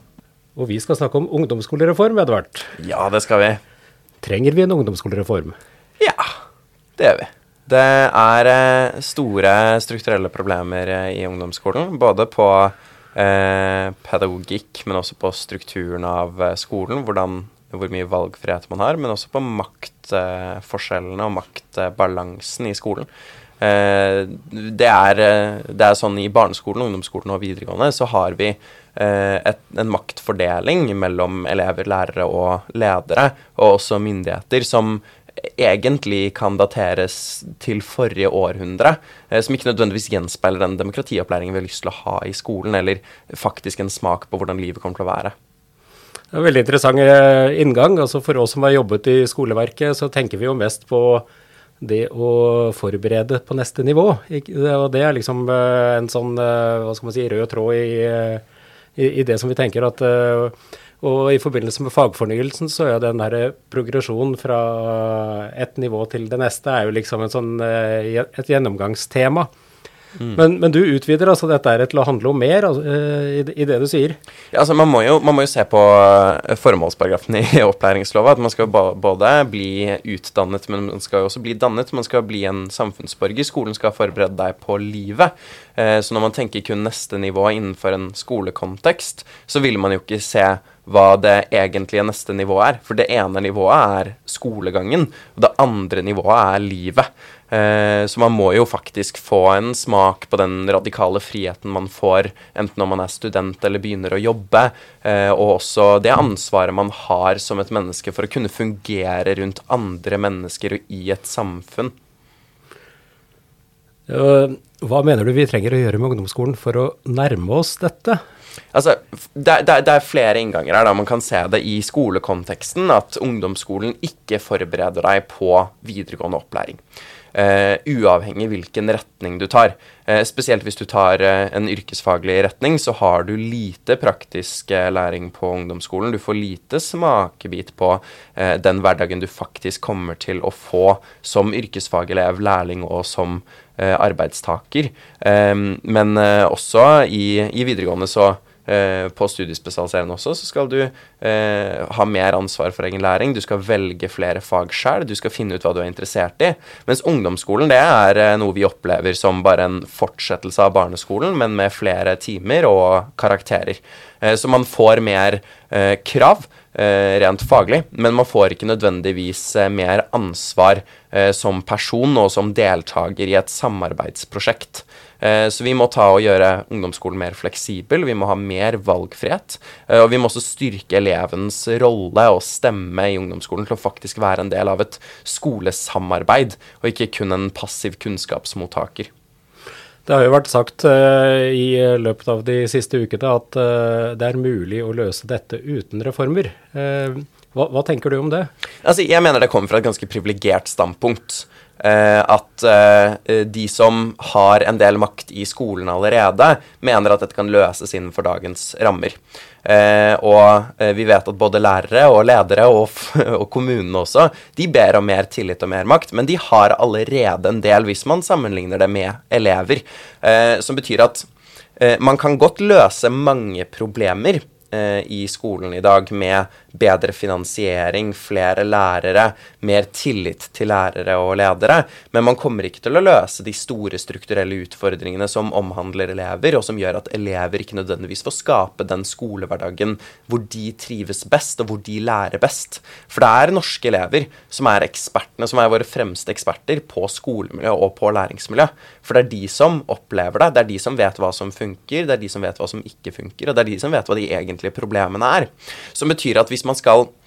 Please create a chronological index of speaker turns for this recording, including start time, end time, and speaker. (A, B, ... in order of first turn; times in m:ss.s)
0:00.6-0:02.8 A
0:02.8-0:03.6 B
0:04.2-0:05.6 A
0:06.0-0:06.4 B
0:07.0-0:23.1 B
0:23.6-0:45.3 B
0:46.3-0:51.3 A
0:51.8-0:58.4 A
0:59.0-1:09.5 A
1:10.3-1:14.2 A
1:14.5-1:51.9 B
1:54.1-1:58.2 A
1:58.7-2:06.8 B
2:07.3-3:09.1 B
3:10.1-3:18.5 A
3:18.8-4:17.1 B